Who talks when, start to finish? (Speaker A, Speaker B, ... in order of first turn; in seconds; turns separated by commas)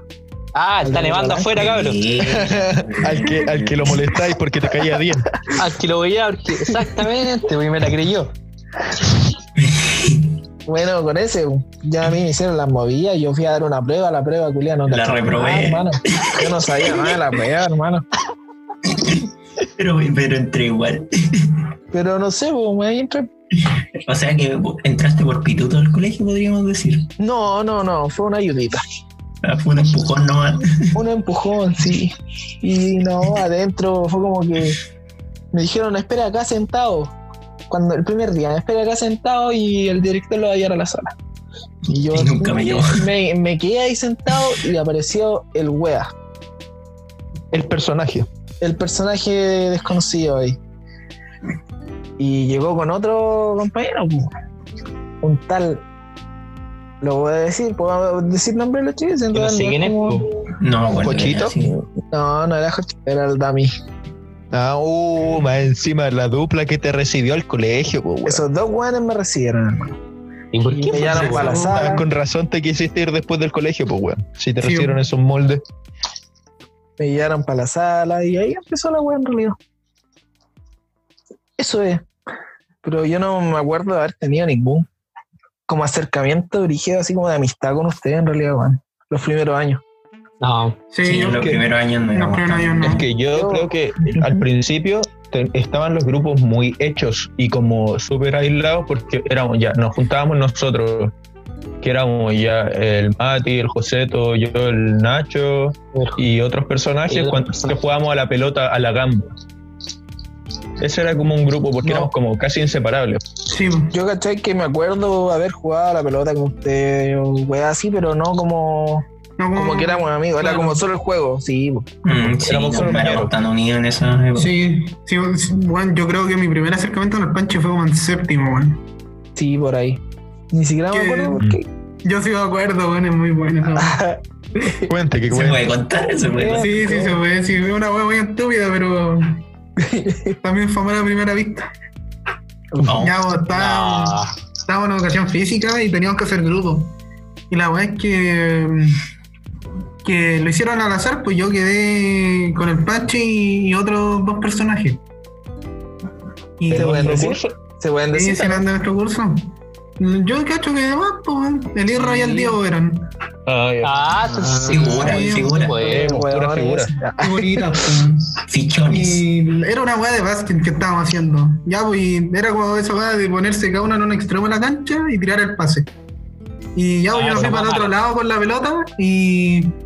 Speaker A: 0.6-2.0, Speaker B: 0.8-1.5, Speaker C: 1.5-4.0, Speaker B: 2.2-2.7, Speaker D: 3.0-5.3, Speaker A: 5.5-8.3, Speaker C: 9.6-10.3, Speaker B: 10.7-18.1, Speaker C: 14.9-17.1, Speaker C: 18.9-21.6, Speaker B: 21.9-23.3, Speaker C: 23.7-27.1, Speaker B: 27.2-28.8, Speaker C: 29.4-31.0, Speaker B: 30.9-34.8, Speaker B: 35.5-37.1, Speaker B: 37.7-41.1, Speaker B: 41.9-46.1, Speaker C: 41.9-43.1, Speaker D: 47.5-48.3, Speaker B: 48.6-50.6, Speaker B: 52.2-54.3, Speaker B: 55.2-55.8, Speaker B: 57.0-60.3, Speaker A: 59.3-60.3, Speaker C: 60.6-61.7, Speaker D: 61.0-61.5, Speaker B: 62.0-63.7, Speaker D: 64.5-68.4, Speaker B: 68.3-70.0, Speaker A: 70.5-71.6, Speaker B: 70.7-72.0, Speaker E: 71.0-72.1, Speaker D: 71.2-75.6, Speaker E: 74.6-75.0, Speaker B: 77.0-79.6, Speaker B: 81.6-82.1, Speaker B: 82.8-84.9, Speaker B: 85.7-89.8, Speaker A: 90.4-90.8, Speaker E: 90.9-91.5, Speaker C: 91.0-93.0, Speaker D: 91.3-91.6, Speaker E: 92.1-93.0, Speaker D: 92.8-101.1, Speaker B: 93.3-94.4, Speaker D: 101.8-109.3, Speaker A: 105.9-106.2, Speaker A: 107.1-107.8, Speaker D: 110.8-113.2, Speaker B: 111.8-112.1, Speaker E: 113.5-113.9, Speaker B: 113.9-121.9, Speaker E: 119.4-120.8, Speaker C: 122.1-124.5, Speaker D: 122.1-123.3, Speaker E: 124.4-128.8, Speaker B: 129.4-130.0, Speaker B: 130.5-131.6, Speaker E: 130.9-131.4, Speaker E: 132.1-134.0, Speaker B: 133.7-134.9, Speaker D: 134.9-135.6, Speaker C: 135.3-136.8, Speaker B: 136.3-137.2, Speaker E: 136.6-139.4, Speaker B: 139.8-140.4, Speaker E: 140.4-141.7, Speaker C: 142.8-143.2, Speaker E: 142.9-144.2, Speaker A: 143.5-144.3, Speaker E: 144.7-146.9, Speaker E: 147.5-149.0, Speaker E: 150.0-155.0, Speaker E: 156.6-157.3, Speaker D: 156.7-157.6, Speaker B: 156.7-158.7, Speaker E: 158.1-163.1, Speaker D: 162.2-162.4, Speaker D: 163.5-164.6, Speaker A: 163.8-166.2, Speaker B: 164.4-165.0, Speaker C: 164.7-165.8, Speaker E: 164.8-165.7, Speaker B: 165.8-168.0, Speaker D: 165.9-166.9, Speaker E: 167.2-175.9, Speaker C: 168.5-169.2, Speaker E: 176.8-179.7, Speaker A: 177.1-178.0